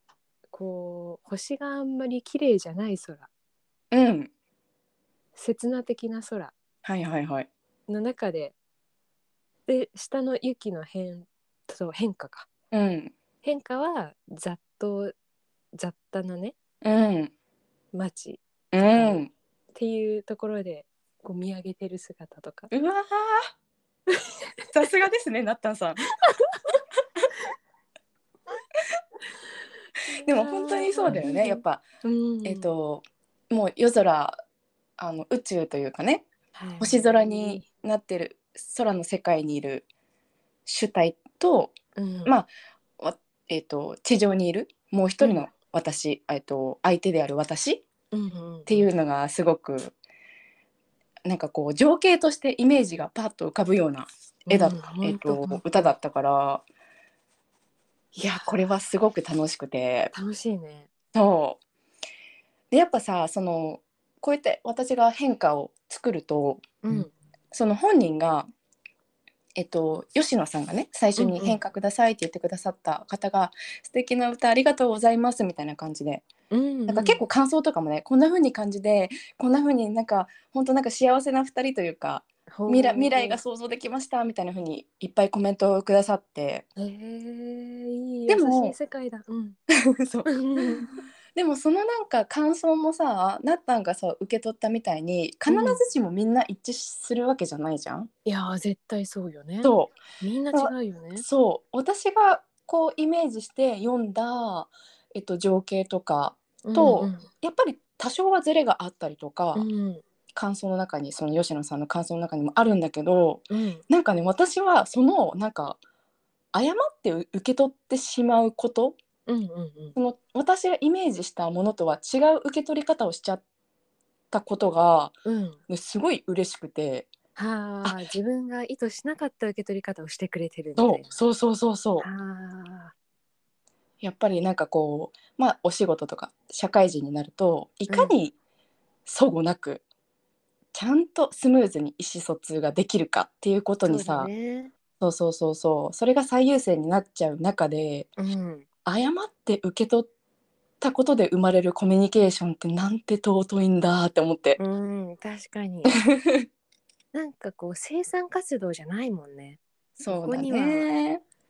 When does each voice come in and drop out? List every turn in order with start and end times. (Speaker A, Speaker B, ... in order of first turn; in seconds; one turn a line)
Speaker A: 0.5-3.3
Speaker B: 3.9-4.3
Speaker A: 5.4-6.5
Speaker B: 6.8-7.5
Speaker A: 7.9-8.6
Speaker A: 9.7-12.5
Speaker B: 12.7-13.1
Speaker A: 13.4-15.1
Speaker A: 15.8-16.6
Speaker B: 16.8-17.3
Speaker A: 17.9-19.2
Speaker B: 18.7-19.3
Speaker A: 19.8-22.7
Speaker B: 22.7-23.5
Speaker B: 24.7-26.0
Speaker A: 30.1-32.7
Speaker B: 30.2-31.8
Speaker B: 32.5-34.4
Speaker B: 35.0-36.3
Speaker A: 36.5-37.6
Speaker B: 36.8-39.9
Speaker B: 40.7-41.7
Speaker A: 42.0-42.3
Speaker B: 42.2-47.8
Speaker A: 45.2-45.5
Speaker A: 48.1-48.9
Speaker B: 48.7-50.0
Speaker B: 51.2-56.6
Speaker A: 54.5-55.9
Speaker B: 58.2-60.1
Speaker A: 58.2-58.6
Speaker A: 60.1-60.9
Speaker B: 61.1-61.6
Speaker B: 62.7-68.5
Speaker A: 66.8-67.1
Speaker B: 69.6-76.3
Speaker A: 71.2-71.6
Speaker A: 76.5-77.2
Speaker B: 76.9-86.7
Speaker A: 82.5-83.4
Speaker A: 86.8-89.6
Speaker B: 88.3-88.8
Speaker B: 90.0-98.1
Speaker A: 90.3-90.9
Speaker A: 95.5-95.8
Speaker A: 98.3-101.2
Speaker B: 99.6-100.0
Speaker B: 100.5-109.7
Speaker A: 106.6-107.3
Speaker A: 109.5-110.0
Speaker B: 110.3-115.8
Speaker A: 113.5-113.8
Speaker B: 116.5-119.0
Speaker A: 119.3-120.0
Speaker B: 120.0-123.4
Speaker B: 124.3-125.2
Speaker A: 125.2-125.6
Speaker B: 125.7-127.1
Speaker A: 127.4-131.1
Speaker B: 130.8-132.1
Speaker A: 132.0-132.9
Speaker B: 134.0-138.3
Speaker A: 137.9-138.2
Speaker B: 139.1-139.8
Speaker B: 140.7-144.3
Speaker A: 143.8-144.7
Speaker B: 145.0-148.1
Speaker A: 148.2-148.7
Speaker B: 148.8-150.1
Speaker B: 150.8-154.6
Speaker A: 154.6-156.0
Speaker B: 155.9-156.5
Speaker A: 157.1-160.9
Speaker B: 160.0-161.2